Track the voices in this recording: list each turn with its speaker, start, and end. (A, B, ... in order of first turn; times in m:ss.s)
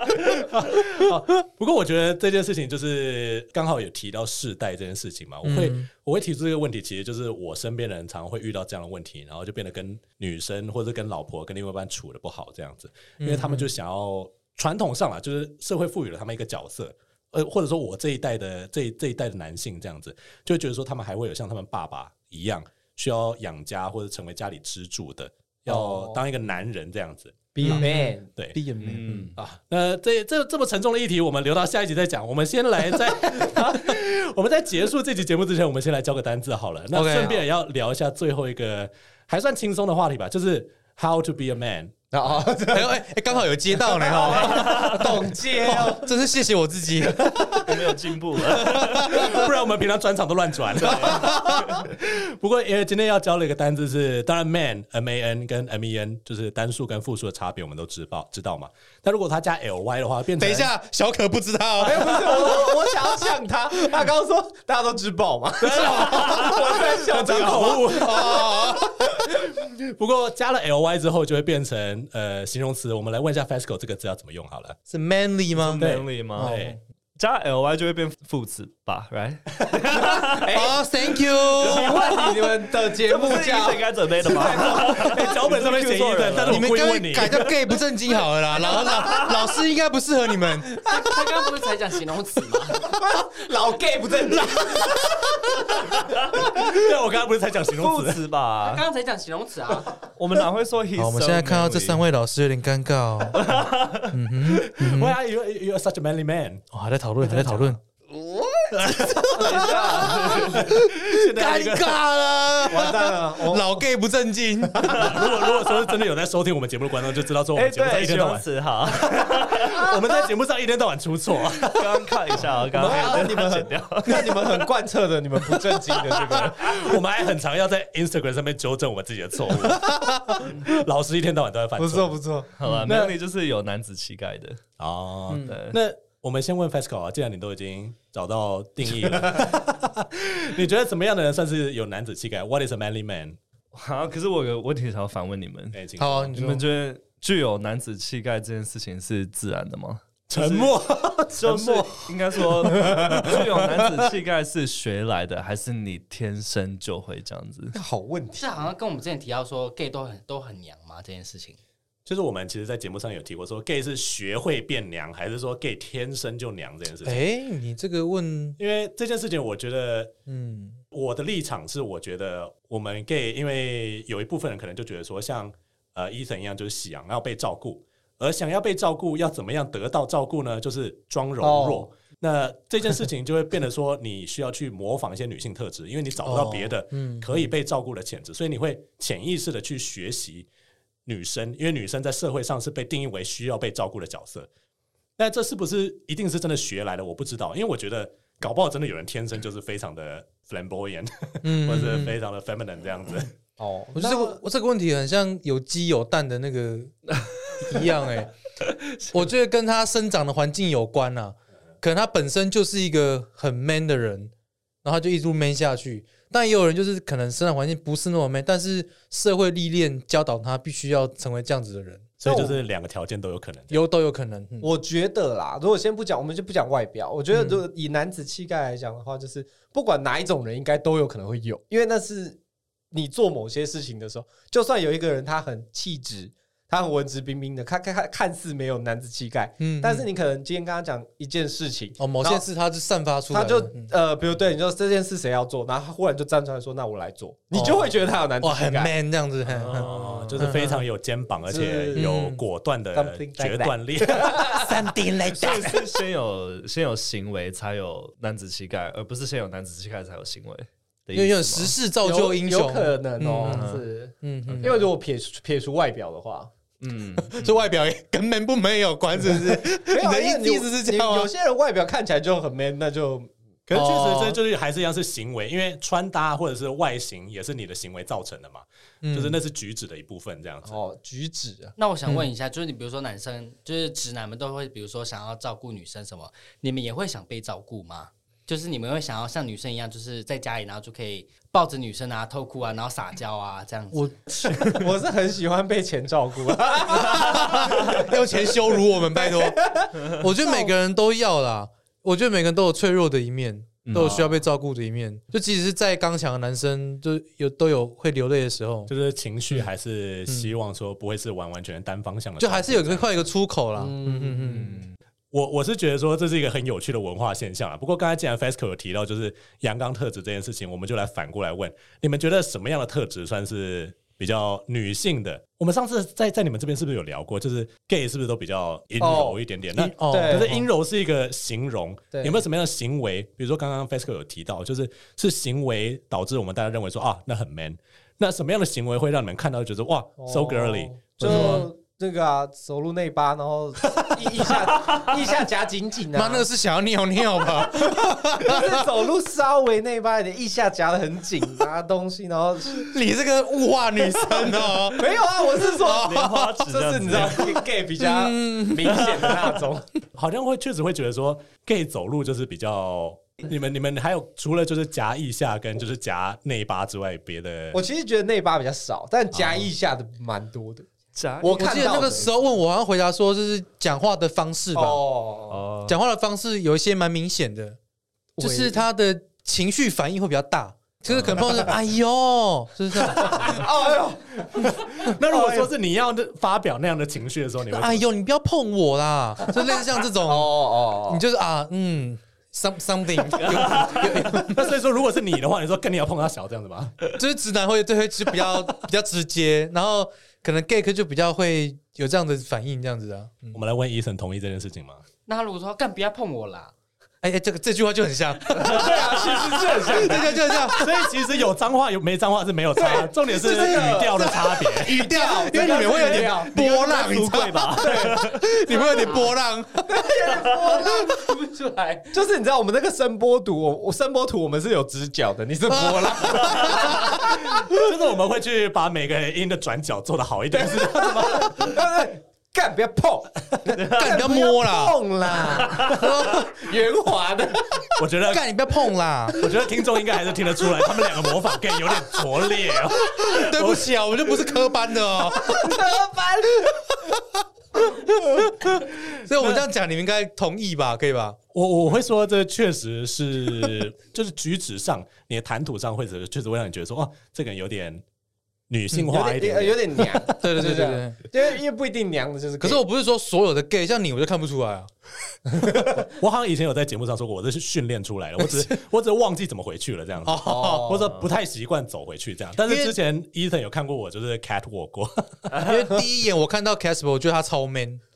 0:00.2-0:28.6 A
0:05.4-0:05.9 B
0:13.2-0:13.7 B
0:25.7-0:26.2 C
0:27.5-0:28.3 C
0:27.6-0:29.3 B
0:28.8-0:29.4 D
0:29.4-0:42.0 A
0:36.9-0:37.4 B
0:42.1-0:43.0 C
0:42.7-0:47.6 B
0:43.7-0:46.1 C
0:44.5-0:44.9 D
0:47.2-0:47.6 C
0:47.6-0:49.4 D
0:48.6-0:49.5 B
0:49.0-1:00.7 A
0:50.9-0:51.8 D
0:50.9-0:51.6 B
1:00.4-1:03.4 B
1:01.8-1:08.7 C
1:05.6-1:08.6 A
1:05.9-1:06.6 B
1:07.4-1:09.0 B
1:09.2-1:14.8 A
1:14.9-1:15.8 B
1:15.6-1:16.6 D
1:15.8-1:16.8 A
1:16.4-1:16.8 B
1:17.2-1:20.5 D
1:19.9-1:20.8 C
1:20.5-1:21.9 B
1:21.6-1:25.3 C
1:21.6-1:26.7 D
1:24.8-1:27.5 A
1:26.5-1:30.8 B
1:28.6-1:29.6 D
1:30.8-1:33.0 E
1:32.7-1:35.4 C
1:36.4-1:38.2 A
1:37.8-1:38.8 D
1:38.6-1:40.0 E
1:40.2-1:42.0 D
1:41.0-1:43.6 B
1:43.3-1:44.1 D
1:44.1-1:45.2 B
1:44.6-1:46.6 A
1:46.7-1:47.8 B
1:47.3-1:47.7 A
1:48.8-1:49.4 A
1:49.4-1:50.6 C
1:49.4-1:50.6 D
1:50.4-1:52.0 A
1:50.6-1:55.1 B
1:52.7-1:53.8 C
1:54.9-2:02.1 A
1:57.6-1:59.8 D
2:01.6-2:04.7 D
2:02.7-2:07.0 C
2:02.8-2:03.3 A
2:06.2-2:12.2 A
2:11.8-2:12.5 C
2:12.6-2:14.6 D
2:12.8-2:13.2 A
2:14.8-2:23.4 A
2:15.3-2:15.6 B
2:15.4-2:15.8 D
2:23.7-2:25.8 D
2:25.7-2:26.4 A
2:26.0-2:26.6 B
2:26.3-2:30.7 D
2:30.3-2:32.1 A
2:31.3-2:37.8 D
2:32.8-2:33.2 C
2:32.8-2:33.1 A
2:37.7-2:38.7 C
2:38.4-2:41.6 E
2:42.1-2:47.3 A
2:47.0-2:48.6 B
2:48.6-2:50.1 A
2:50.3-2:50.8 B
2:50.9-3:10.5 A
3:01.4-3:01.9 C
3:06.2-3:07.5 B
3:11.1-3:14.5 A
3:15.2-3:23.3 A
3:21.4-3:22.2 B
3:23.6-3:24.4 C
3:24.0-3:27.0 B
3:27.6-3:28.3 B
3:29.1-3:34.3 B
3:34.8-3:42.2 B
3:42.2-3:43.8 A
3:42.3-3:42.6 C
3:43.7-3:44.8 B
3:44.6-3:52.4 C
3:47.3-3:47.6 B
3:52.9-4:02.4 C
3:59.6-4:00.1 B
4:02.0-4:03.9 B
4:03.3-4:08.9 C
4:07.5-4:10.8 B
4:09.5-4:10.5 D
4:09.8-4:15.8 A
4:11.5-4:12.1 C
4:11.9-4:12.4 B
4:12.9-4:14.9 C
4:15.4-4:21.8 D
4:21.1-4:23.7 B
4:22.0-4:26.5 C
4:23.5-4:23.8 D
4:24.2-4:24.9 B
4:24.5-4:24.8 D
4:26.8-4:27.7 D
4:27.2-4:31.3 B
4:29.4-4:33.3 C
4:33.7-4:40.8 A
4:33.7-4:34.4 B
4:39.0-4:39.4 B
4:40.6-4:41.8 C
4:41.8-4:54.2 E
4:53.9-4:54.9 B
4:54.6-4:58.1 C
4:56.9-5:08.9 B
4:59.2-5:00.7 C
5:03.8-5:04.4 D
5:08.9-5:13.1 A
5:12.4-5:14.8 B
5:13.8-5:14.8 C
5:15.3-5:41.7 A
5:29.0-5:29.4 C
5:29.7-5:30.7 B
5:30.1-5:30.6 C
5:32.1-5:32.4 C
5:40.2-5:46.5 C
5:41.2-5:41.7 B
5:46.1-5:49.0 B
5:47.8-5:53.0 C
5:52.8-5:56.6 B
5:54.0-5:59.9 C
5:55.9-5:57.5 D
5:58.0-5:59.4 B
6:00.2-6:07.8 A
6:07.7-6:10.9 C
6:11.1-6:12.2 D
6:11.4-6:12.3 C
6:11.5-6:15.0 B
6:14.7-6:15.6 C
6:15.5-6:16.0 D
6:15.9-6:17.8 B
6:18.4-6:18.8 C
6:18.4-6:23.7 B
6:21.1-6:21.7 C
6:23.0-6:25.7 C
6:24.6-6:28.0 A
6:27.7-6:34.7 B
6:30.2-6:31.2 C
6:33.4-6:34.2 D
6:34.0-6:37.1 A
6:37.2-6:43.6 B
6:43.5-6:45.0 A
6:45.3-6:46.7 E
6:47.2-6:51.0 B
6:48.5-6:50.5 C
6:50.7-6:55.1 A
6:52.8-6:56.6 C
6:53.4-7:00.1 B
6:56.2-6:58.4 D
6:57.8-6:59.1 C
6:58.8-6:59.3 E
6:59.8-7:01.4 C
7:00.8-7:02.1 E
7:02.1-7:07.3 C
7:05.7-7:07.2 B
7:06.9-7:11.8 A
7:10.5-7:17.9 C
7:13.8-7:15.0 B
7:15.6-7:16.6 B
7:18.0-7:18.5 A
7:18.3-7:19.5 B
7:19.3-7:24.3 A
7:23.0-7:25.8 B
7:25.3-7:27.1 C
7:26.6-7:27.1 B
7:27.8-7:31.4 B
7:29.4-7:29.6 A
7:31.5-7:38.0 A
7:38.7-7:40.4 A
7:39.0-7:42.8 C
7:40.4-7:41.2 B
7:42.6-7:44.9 B
7:46.2-7:55.6 A
7:48.4-7:48.7 B
7:50.2-7:51.0 B
7:50.4-7:51.2 C
7:52.6-7:53.0 B
7:55.6-7:58.0 B